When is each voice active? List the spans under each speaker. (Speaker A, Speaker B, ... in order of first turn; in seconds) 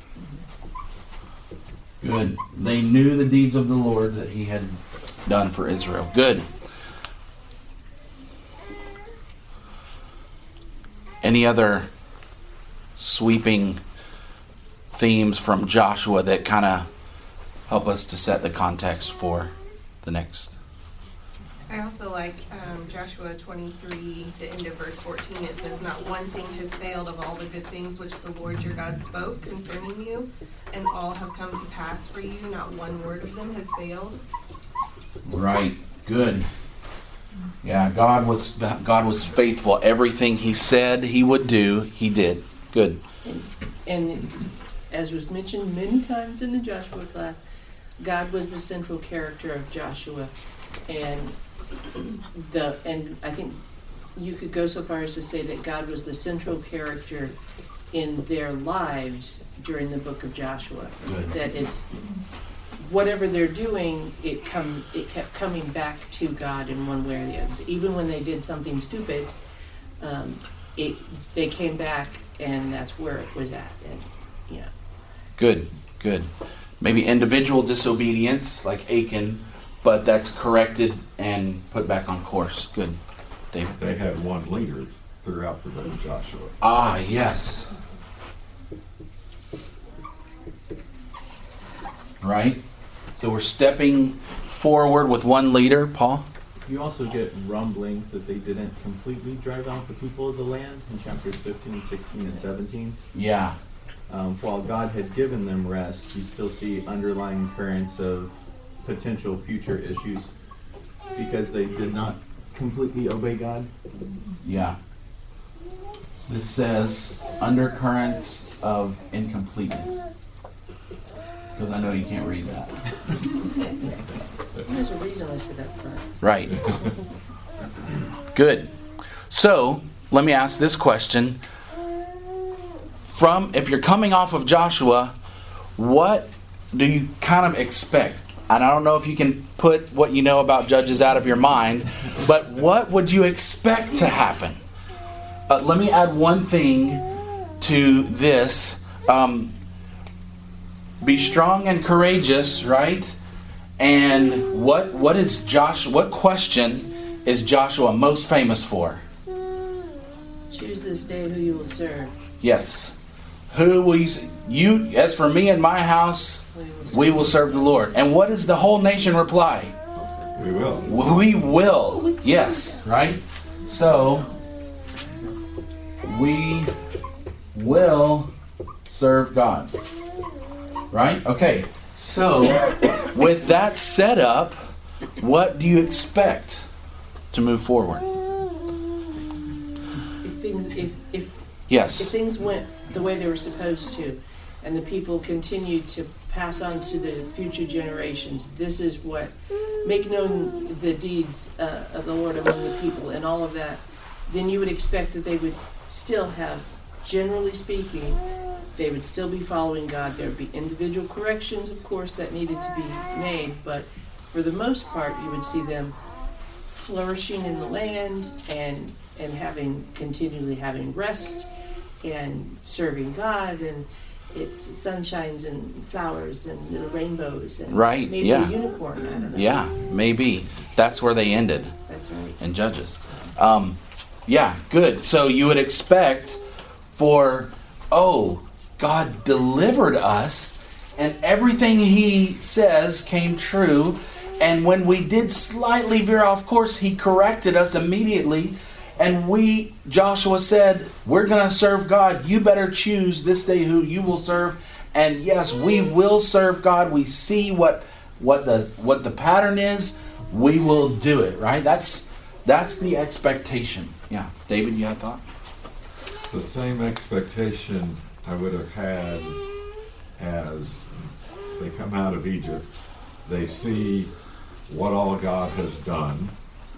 Speaker A: 2.0-6.5, 11.2-11.9, 13.0-13.8, 14.9-16.9, 17.7-19.5, 20.0-20.6, 35.3-36.5, 37.6-43.0, 61.0-61.3, 75.4-76.3, 76.8-83.0, 83.5-83.8, 86.6-87.7, 92.2-92.6, 93.2-96.3, 103.1-103.6, 114.4-114.8, 116.3-120.0, 121.6-122.8, 126.2-126.6, 128.3-128.7, 129.3-131.4, 133.1-135.1, 135.8-144.6, 145.5-147.0, 147.6-149.5, 151.0-153.2, 153.8-159.0, 162.4-162.9, 163.5-169.8, 170.9-174.3, 176.0-176.7, 177.5-178.3, 178.9-179.7, 180.9-184.7, 185.2-186.7, 187.3-188.1, 191.7-192.1, 227.7-228.5, 229.3-231.7, 232.4-236.4, 236.9-265.2
Speaker B: 21.7-34.2
Speaker C: 43.2-47.4, 48.0-50.3, 50.9-51.4, 52.3-53.6, 54.1-57.4, 57.9-61.9, 62.8-69.3, 70.0-74.7, 124.6-126.1, 160.5-162.2, 166.5-167.9, 170.0-170.3, 190.2-208.2, 208.8-215.9, 216.8-221.5, 222.0-229.7, 231.9-232.4
Speaker D: 83.8-86.6, 170.3-171.2, 266.2-269.4, 270.2-272.7, 273.2-274.1, 274.7-276.3
Speaker E: 96.6-103.0, 104.1-110.3, 111.1-113.7